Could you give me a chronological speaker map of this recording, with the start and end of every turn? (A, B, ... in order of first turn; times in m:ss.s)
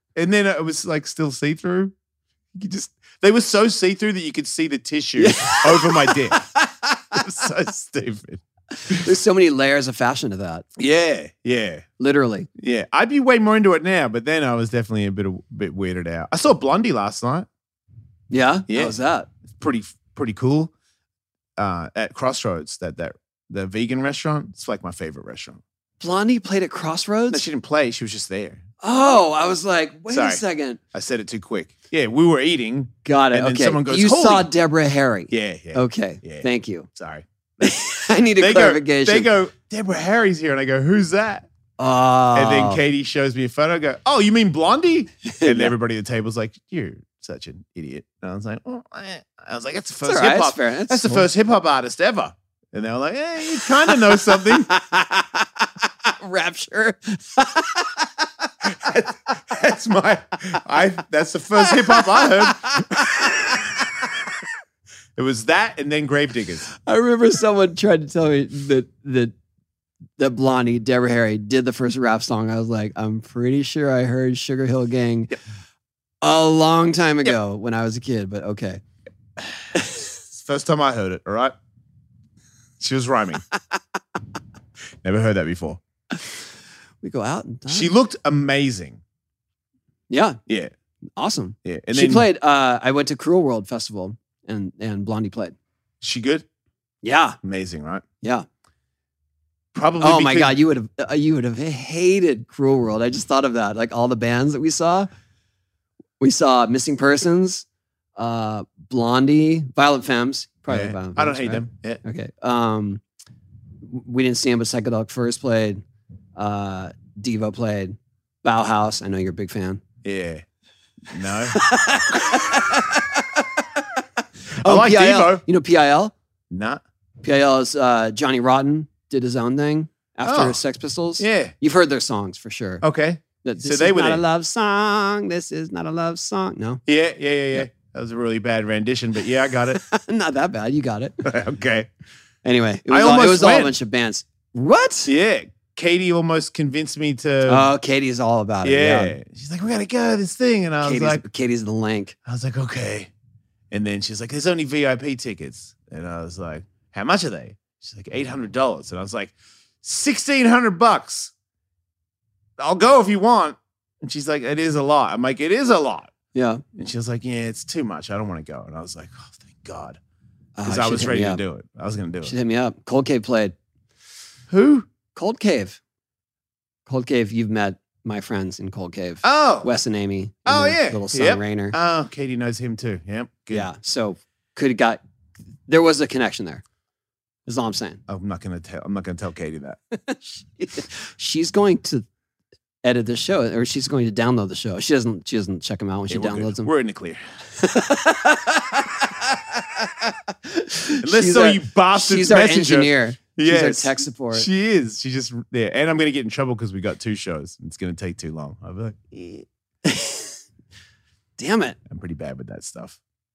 0:00.2-0:01.9 A
0:02.5-0:06.4 A
0:05.2-0:07.2 B
0:07.1-0:09.0 A
0:08.8-0:10.6 B
0:10.8-0:11.8 A
0:12.0-0:12.5 B
0:12.6-0:17.5 A
0:18.3-0:19.3 B
0:18.7-0:18.9 A
0:19.5-0:20.7 A
0:21.6-0:25.6 A
0:26.0-0:27.4 B
0:27.3-0:28.6 A
0:28.8-0:30.8 B
0:30.1-0:30.4 A
0:30.9-0:34.5 A
0:33.0-0:36.9 B
0:35.3-0:37.7 A
0:37.6-0:39.3 B
0:38.4-0:41.5 A
0:41.8-0:42.8 B
0:42.3-0:54.7 A
0:45.2-0:45.7 B
0:50.0-0:51.2 B
0:53.4-0:58.1 B
0:58.6-1:03.8 A
1:01.6-1:03.6 B
1:05.2-1:06.7 A
1:06.7-1:09.3 B
1:10.2-1:15.4 B
1:16.2-1:18.8 B
1:20.3-1:21.5 A
1:22.8-1:23.4 A
1:25.0-1:25.8 A
1:27.0-1:27.9 B
1:27.7-1:29.0 A
1:30.1-1:30.4 B
1:31.2-1:35.6 B
1:31.6-1:32.2 A
1:36.0-1:36.4 A
1:37.0-1:37.4 B
1:37.4-1:38.0 A
1:39.7-1:40.5 A
1:40.0-1:45.1 B
1:46.2-1:47.6 B
1:48.2-1:53.0 B
1:50.7-1:52.0 A
1:53.8-1:55.8 B
1:56.4-1:59.8 B
2:00.0-2:00.4 A
2:01.1-2:01.6 A
2:01.5-2:04.0 B
2:02.3-2:02.6 A
2:04.6-2:05.4 A
2:04.6-2:06.1 B
2:06.5-2:06.8 A
2:07.2-2:12.8 B
2:10.3-2:10.6 A
2:11.2-2:11.5 A
2:12.8-2:14.2 A
2:13.4-2:16.8 B
2:16.9-2:19.8 A
2:19.7-2:21.2 B
2:21.2-2:21.9 A
2:22.4-2:25.1 B
2:22.9-2:23.7 A
2:25.0-2:27.7 A
2:27.4-2:29.2 B
2:28.6-2:31.2 A
2:30.8-2:32.1 B
2:32.2-2:33.1 A
2:33.7-2:41.3 A
2:42.6-2:46.1 A
2:46.3-2:46.6 B
2:46.7-2:50.0 A
2:50.6-2:51.4 B
2:50.6-2:52.3 A
2:52.2-2:53.6 B
2:54.5-2:54.9 A
2:55.1-2:55.8 B
2:56.9-3:01.7 B
2:59.2-2:59.7 A
3:00.4-3:03.7 A
3:03.5-3:05.0 B
3:05.7-3:06.6 B
3:07.4-3:08.0 B
3:08.1-3:09.8 A
3:09.9-3:12.0 B
3:12.8-3:16.7 B
3:16.1-3:17.2 A
3:17.6-3:24.5 B
3:21.0-3:29.5 A
3:29.8-3:30.3 B
3:31.4-3:31.8 B
3:31.9-3:33.0 A